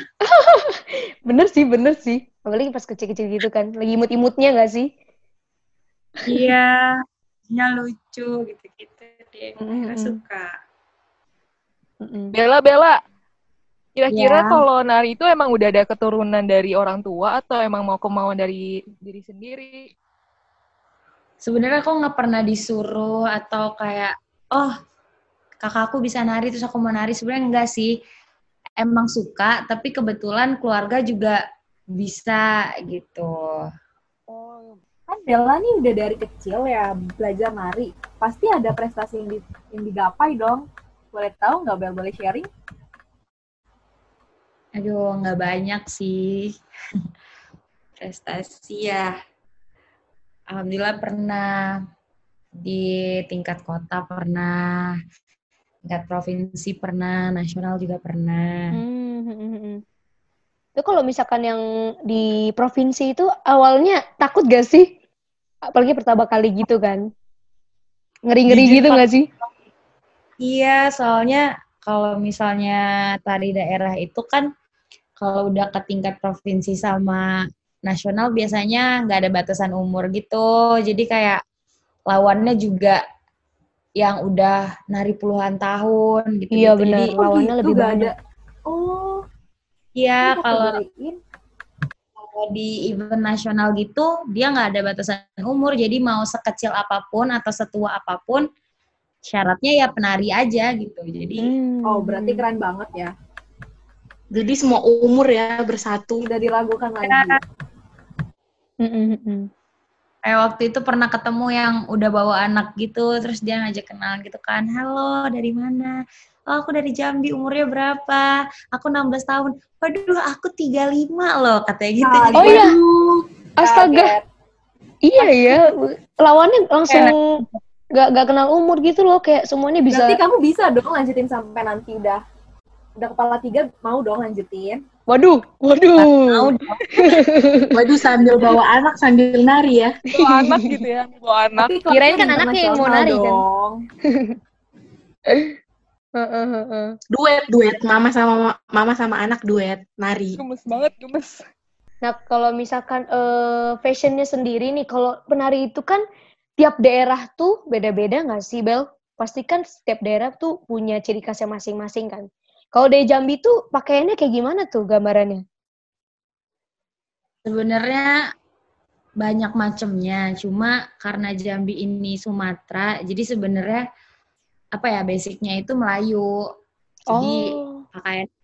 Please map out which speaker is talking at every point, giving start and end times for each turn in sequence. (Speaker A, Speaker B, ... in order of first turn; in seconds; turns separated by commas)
Speaker A: 0.3-4.9, Speaker B: 6.2-7.0, Speaker B: 7.5-10.6, Speaker A: 9.6-10.2, Speaker A: 12.0-12.3, Speaker C: 12.3-13.0, Speaker C: 14.0-19.9, Speaker B: 14.1-14.6, Speaker B: 21.4-24.7, Speaker B: 25.6-27.9, Speaker B: 28.8-31.4, Speaker B: 31.9-33.7, Speaker C: 34.3-34.8, Speaker D: 35.1-42.5, Speaker B: 44.8-46.6, Speaker B: 48.0-49.1, Speaker B: 50.5-51.8, Speaker B: 52.6-55.0, Speaker B: 55.8-58.7, Speaker A: 58.7-59.8, Speaker A: 60.8-64.9, Speaker A: 65.7-67.0, Speaker A: 68.3-69.2, Speaker B: 68.5-69.0, Speaker B: 70.4-74.5, Speaker B: 75.2-81.4, Speaker B: 82.1-83.0, Speaker B: 84.0-87.3, Speaker A: 86.5-88.1, Speaker D: 87.2-88.1, Speaker D: 88.7-89.2, Speaker B: 90.0-90.8, Speaker D: 90.2-91.2, Speaker B: 92.2-98.5, Speaker B: 99.3-101.5, Speaker A: 101.4-102.4, Speaker D: 101.8-103.1, Speaker E: 104.3-106.3, Speaker D: 106.2-107.4, Speaker B: 107.0-107.3, Speaker A: 108.8-109.5, Speaker B: 110.2-116.0, Speaker B: 116.5-122.7, Speaker D: 122.0-124.2, Speaker A: 122.4-122.8, Speaker A: 123.6-124.1, Speaker A: 125.0-127.4, Speaker B: 126.9-127.1, Speaker A: 127.9-130.2, Speaker D: 129.9-132.2, Speaker D: 133.0-134.8, Speaker A: 135.1-137.7, Speaker B: 135.9-137.2, Speaker E: 137.7-140.4, Speaker C: 140.1-141.7, Speaker D: 141.6-143.8, Speaker A: 141.9-143.4, Speaker A: 144.1-144.3, Speaker A: 146.2-146.9, Speaker E: 147.1-150.4, Speaker C: 150.4-151.4, Speaker A: 152.0-156.0, Speaker A: 156.6-165.4, Speaker B: 167.4-168.2, Speaker B: 169.2-173.8, Speaker B: 174.7-176.4, Speaker B: 177.1-178.3, Speaker A: 177.1-177.8